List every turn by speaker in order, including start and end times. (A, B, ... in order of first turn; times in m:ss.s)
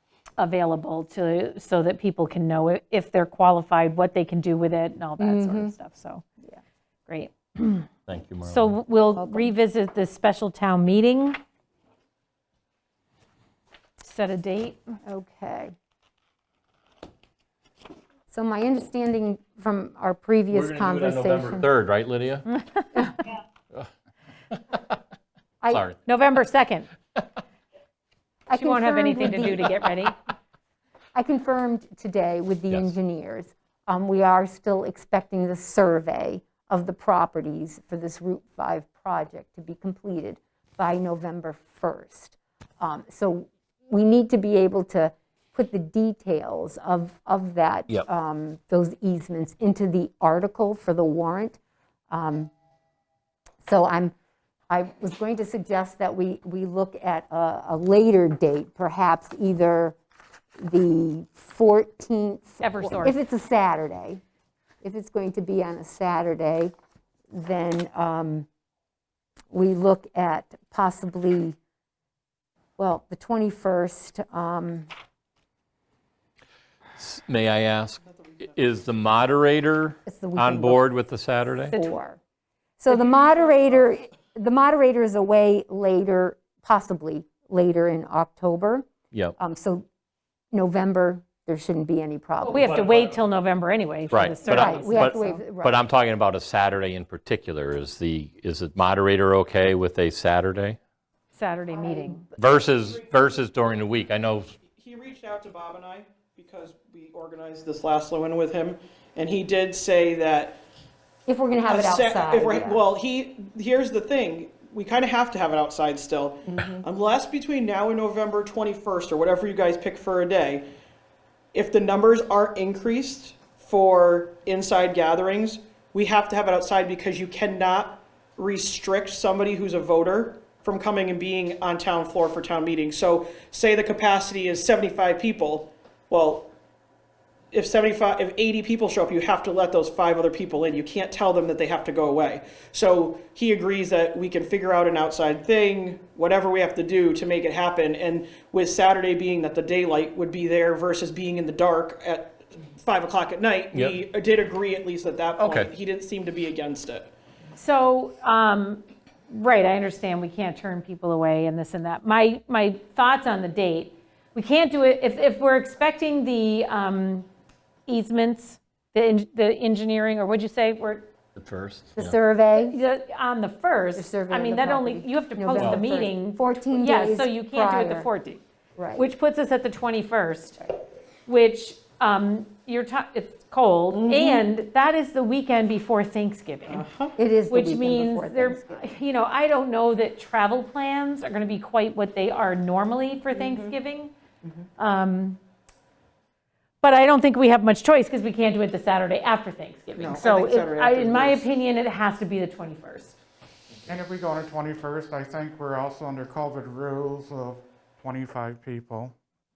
0:00.4-0:06.2 A
0:05.2-0:05.8 B
0:07.1-0:07.9 A
0:08.1-0:08.8 C
0:08.4-0:11.4 A
0:09.1-0:09.5 B
0:14.0-0:15.0 A
0:15.1-0:15.7 B
0:18.3-0:21.7 B
0:20.5-0:22.5 C
0:22.8-0:23.1 A
0:24.5-0:25.0 C
0:25.7-0:26.0 C
0:26.0-0:26.9 A
0:28.5-0:29.8 B
0:28.6-0:30.2 A
0:31.2-0:51.6 B
0:52.1-0:52.5 B
0:53.6-0:54.1 B
0:54.7-1:00.0 B
1:00.6-1:04.2 B
1:02.6-1:03.2 A
1:04.8-1:06.7 B
1:07.3-1:08.5 B
1:09.5-1:11.6 B
1:12.8-1:14.9 B
1:17.0-1:21.7 C
1:18.0-1:18.8 D
1:20.1-1:20.8 B
1:21.7-1:22.0 A
1:21.7-1:22.2 B
1:22.8-1:29.9 B
1:30.5-1:32.7 B
1:32.4-1:35.4 A
1:32.5-1:33.2 C
1:34.1-1:40.8 C
1:34.5-1:35.8 B
1:41.3-1:42.3 A
1:41.7-1:42.2 B
1:42.4-1:44.6 C
1:42.6-1:43.2 D
1:44.7-1:50.6 D
1:51.3-1:52.8 B
1:51.6-2:00.6 D
1:56.5-1:56.8 B
2:01.5-2:16.5 D
2:17.5-2:37.1 D
2:33.7-2:34.0 C
2:35.4-2:35.7 C
2:37.6-2:47.3 A
2:47.9-2:51.1 A
2:51.4-2:52.2 C
2:52.0-2:52.8 B
2:52.5-2:58.4 A
2:54.0-2:58.1 B
2:55.6-2:55.8 C
2:58.8-2:59.0 B
2:59.0-3:00.6 A
3:01.3-3:06.8 A
3:03.9-3:04.4 D
3:06.7-3:07.2 D
3:07.2-3:09.0 B
3:07.5-3:14.1 A
3:13.3-3:13.7 D
3:14.8-3:15.4 A
3:16.8-3:23.2 A
3:20.0-3:21.5 D
3:23.9-3:29.2 E